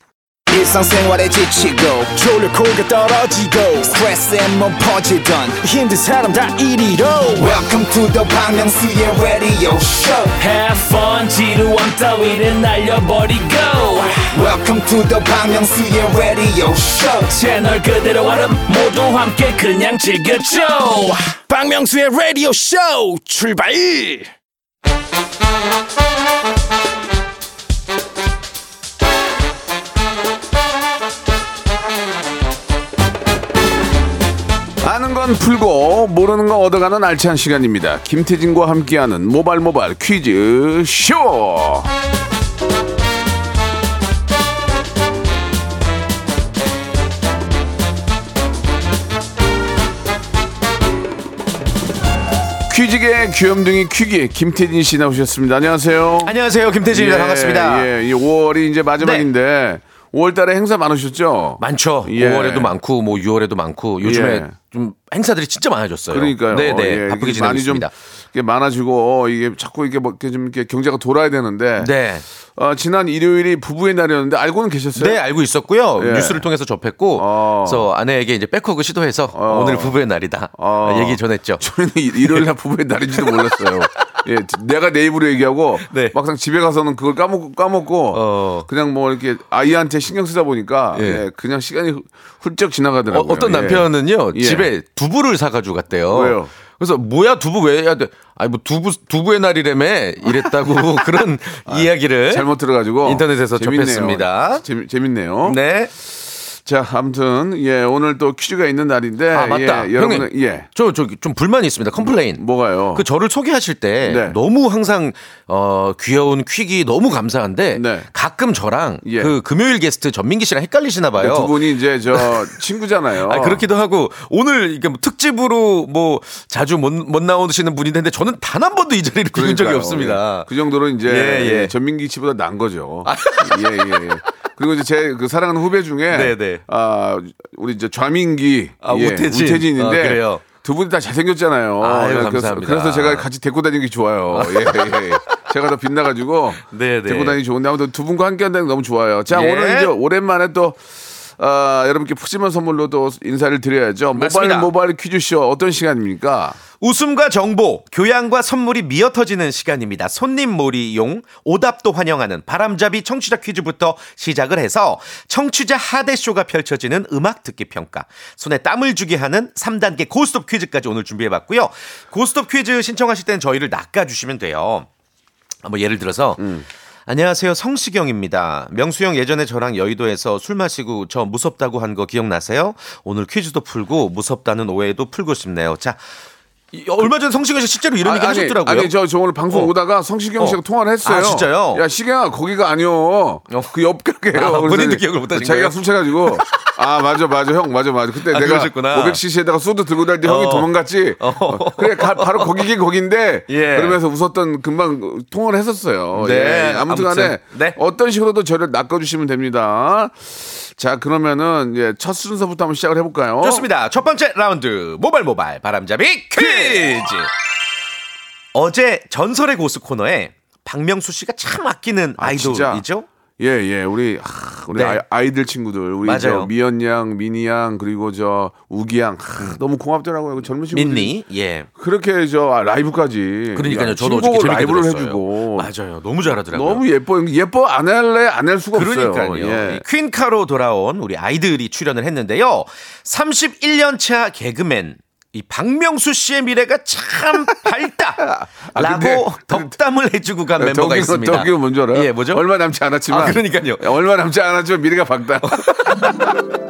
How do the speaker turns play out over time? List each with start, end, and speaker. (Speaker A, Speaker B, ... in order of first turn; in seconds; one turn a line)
Speaker A: 0.5-10.4
Speaker B: 10.4-14.2
Speaker A: 14.3-17.4
Speaker B: 17.3-21.3
Speaker C: 21.5-24.3
Speaker D: 34.8-41.9
Speaker D: 52.7-56.3
Speaker E: 56.2-57.9
Speaker D: 56.9-62.7
Speaker E: 59.0-59.3
Speaker E: 61.6-67.9
Speaker D: 64.0-64.5
Speaker D: 66.1-71.9
Speaker E: 71.8-72.2
Speaker D: 72.5-75.2
Speaker E: 75.0-81.6
Speaker D: 76.0-76.4
Speaker D: 77.2-77.9
Speaker D: 79.3-80.0
Speaker D: 80.5-94.7
Speaker E: 82.2-82.5
Speaker E: 83.1-83.6
Speaker E: 85.8-86.2
Speaker E: 88.1-88.7
Speaker E: 90.9-91.2
Speaker E: 93.1-102.5
Speaker D: 96.1-96.5
Speaker D: 100.2-100.8
Speaker D: 101.7-105.6
Speaker E: 103.0-104.6
Speaker E: 105.4-105.9
Speaker D: 106.1-110.7
Speaker E: 109.3-121.5
Speaker D: 112.0-113.0
Speaker D: 114.0-114.4
Speaker D: 117.7-118.1
Speaker D: 119.0-119.3
Speaker D: 121.1-123.6
Speaker E: 122.1-122.5
Speaker E: 123.2-130.5
Speaker D: 129.3-150.8
Speaker E: 131.0-131.7
Speaker E: 133.0-134.0
Speaker E: 136.1-136.6
Speaker E: 138.8-140.4
Speaker E: 141.8-143.3
Speaker E: 144.3-145.0
Speaker E: 146.6-147.4
Speaker E: 149.3-149.9
Speaker D: 151.4-156.6
Speaker E: 154.1-154.7
Speaker E: 156.8-174.9
Speaker E: 175.6-176.4
Speaker D: 176.4-176.7
Speaker E: 177.1-186.0
Speaker E: 186.7-188.9
Speaker D: 188.0-213.7
Speaker E: 190.4-191.8
Speaker E: 194.3-196.7
Speaker E: 198.3-199.2
Speaker E: 200.2-202.6
Speaker E: 203.5-204.0
Speaker E: 206.1-207.8
Speaker E: 213.4-217.3
Speaker D: 216.3-217.0
Speaker E: 218.5-223.1
Speaker D: 222.2-222.8
Speaker D: 223.4-231.1
Speaker E: 224.7-225.0
Speaker E: 226.0-226.5
Speaker E: 230.7-231.7
Speaker D: 231.7-235.7
Speaker E: 233.5-236.8
Speaker D: 236.5-239.8
Speaker E: 238.7-252.4
Speaker D: 248.2-249.7
Speaker D: 250.6-256.4
Speaker E: 253.1-253.9
Speaker E: 255.4-256.3